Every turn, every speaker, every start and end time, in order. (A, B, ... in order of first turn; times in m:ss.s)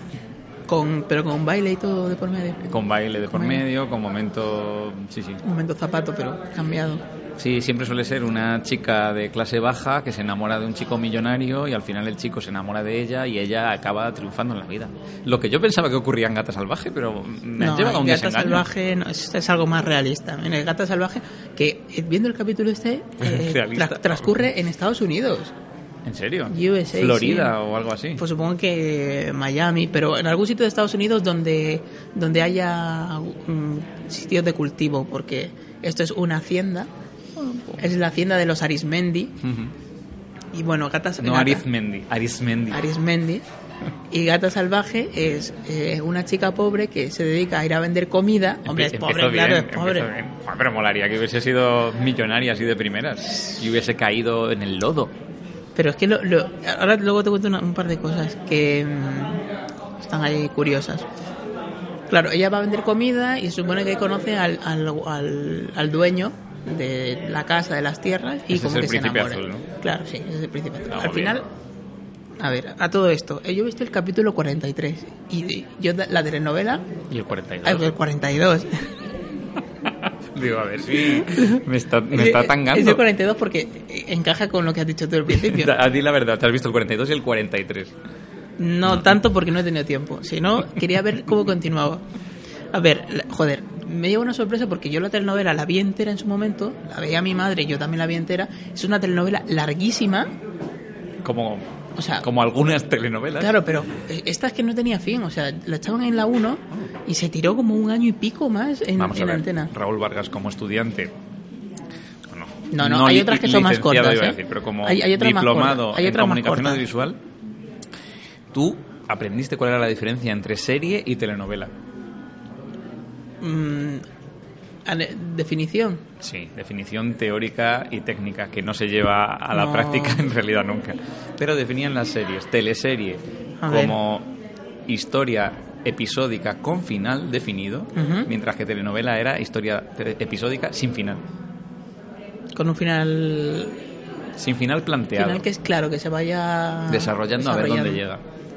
0:00.7-0:02.6 A
0:02.6-0:05.4 B
0:03.3-0:03.6 A
0:05.4-0:07.0 A
0:07.4-0:18.6 B
0:17.6-0:25.5 A
0:23.2-0:24.4 B
0:26.0-0:28.2 B
0:26.5-0:27.5 A
0:28.2-0:36.9 A
0:37.4-0:37.8 B
0:37.8-0:39.4 A
0:39.4-0:39.7 B
0:40.5-0:41.6 A
0:41.2-0:42.8 B
0:42.7-0:43.4 A
0:44.1-0:50.1 A
0:48.6-0:55.1 B
0:55.8-0:59.4 A
1:00.0-1:01.1 A
1:02.1-1:11.4 A
1:08.5-1:09.7 B
1:10.9-1:11.4 B
1:12.4-1:16.9 A
1:17.1-1:17.9 B
1:17.6-1:19.0 A
1:19.8-1:23.0 B
1:21.0-1:25.7 A
1:25.3-1:27.9 B
1:28.6-1:32.0 A
1:32.7-1:40.3 A
1:41.2-1:41.6 B
1:41.9-1:42.2 A
1:42.2-1:43.6 B
1:43.4-1:49.7 A
1:49.0-1:51.1 B
1:52.3-1:57.2 B
1:52.7-1:56.9 A
1:58.5-2:01.7 B
2:03.4-2:04.0 A
2:04.8-2:06.0 A
2:06.2-2:14.3 B
2:09.5-2:10.2 A
2:13.6-2:14.0 A
2:14.9-2:21.2 B
2:17.9-2:18.3 A
2:22.5-2:23.8 A
2:24.4-2:25.4 B
2:25.1-2:28.0 A
2:26.9-2:28.2 B